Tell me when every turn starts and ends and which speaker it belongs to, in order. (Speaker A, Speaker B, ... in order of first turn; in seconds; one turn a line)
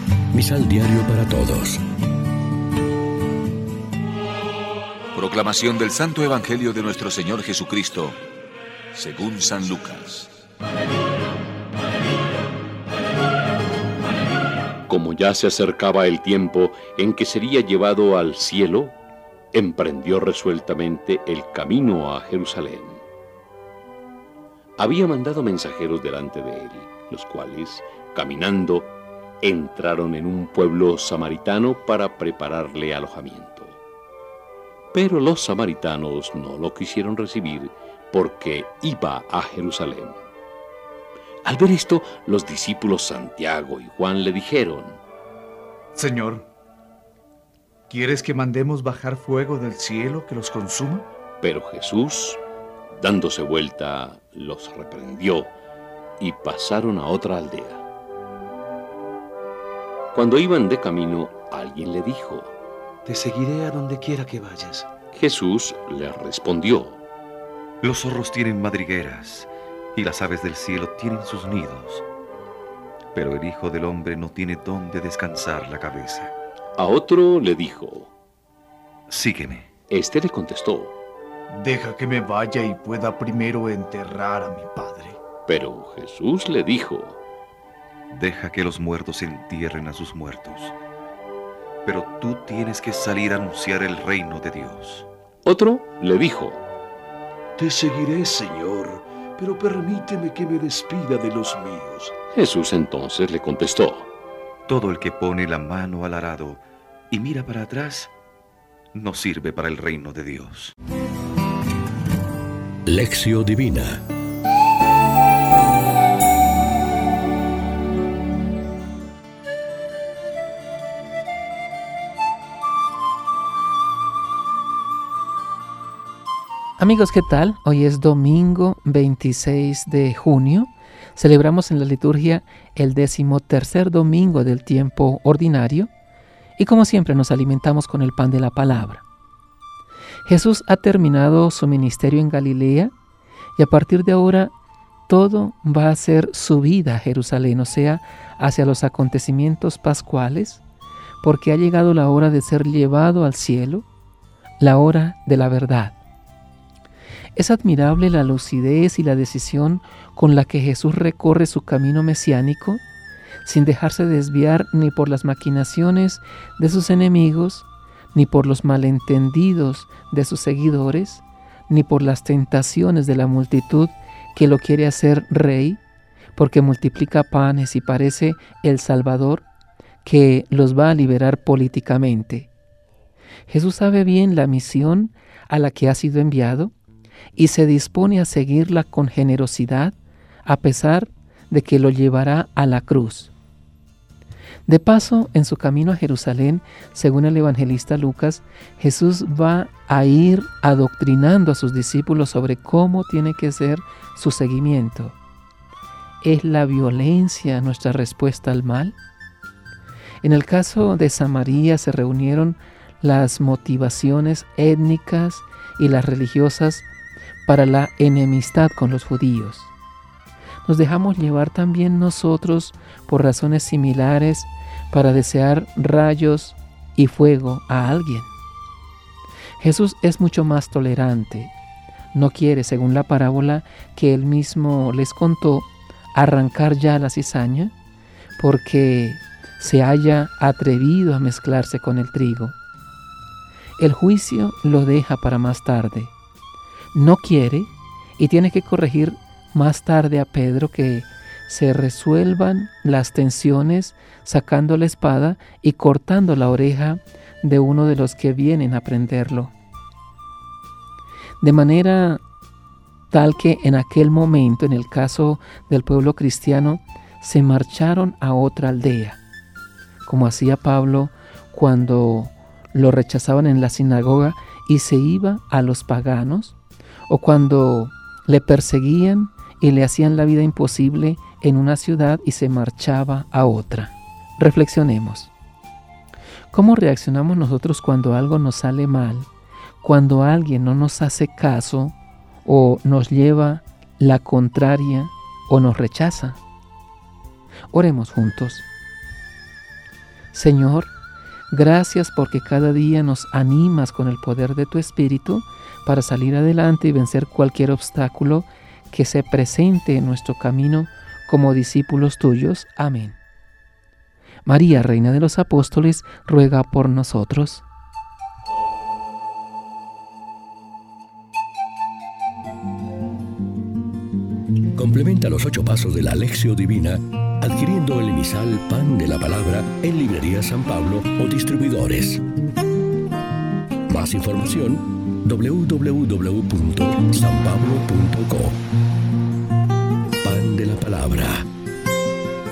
Speaker A: 0.3-1.8
Speaker B: 5.1-8.2
Speaker B: 8.9-10.3
Speaker C: 14.9-19.0
Speaker C: 19.5-23.0
Speaker C: 24.8-33.8
Speaker C: 34.9-40.2
Speaker C: 41.5-45.0
Speaker D: 46.0-46.5
Speaker D: 47.9-51.1
Speaker C: 51.4-52.4
Speaker C: 53.0-55.5
Speaker C: 56.2-57.8
Speaker C: 60.1-62.5
Speaker E: 63.0-64.9
Speaker C: 65.1-67.0
Speaker E: 67.8-72.0
Speaker E: 73.1-76.3
Speaker C: 76.8-78.1
Speaker E: 79.1-79.7
Speaker C: 79.9-80.9
Speaker D: 81.5-85.2
Speaker C: 85.5-87.2
Speaker E: 88.1-90.8
Speaker E: 91.8-95.1
Speaker C: 95.4-96.6
Speaker F: 97.6-102.1
Speaker C: 102.3-104.1
Speaker E: 104.7-108.1
Speaker E: 108.9-110.8
Speaker A: 112.9-114.0
Speaker G: 126.8-135.9
Speaker G: 136.6-139.0
Speaker G: 140.2-142.9
Speaker G: 143.6-144.5
Speaker G: 145.1-150.6
Speaker G: 151.2-153.9
Speaker G: 154.6-156.0
Speaker G: 157.3-162.8
Speaker G: 163.4-175.8
Speaker G: 176.3-179.5
Speaker G: 180.0-182.5
Speaker G: 183.5-186.7
Speaker G: 187.3-193.3
Speaker G: 194.7-205.2
Speaker G: 206.2-209.0
Speaker G: 210.2-216.8
Speaker G: 217.5-219.7
Speaker G: 220.7-228.3
Speaker G: 229.6-231.5
Speaker G: 232.1-237.7
Speaker G: 238.4-242.6
Speaker G: 243.8-246.1
Speaker G: 246.9-259.5
Speaker G: 261.4-262.2
Speaker G: 263.1-269.2
Speaker G: 270.1-276.6
Speaker G: 277.1-285.3
Speaker G: 286.5-289.3
Speaker G: 289.8-296.4
Speaker G: 297.7-298.6
Speaker G: 300.3-300.9
Speaker G: 301.5-313.2
Speaker G: 314.4-317.6
Speaker A: 324.8-332.2
Speaker A: 333.9-338.6
Speaker A: 340.2-341.4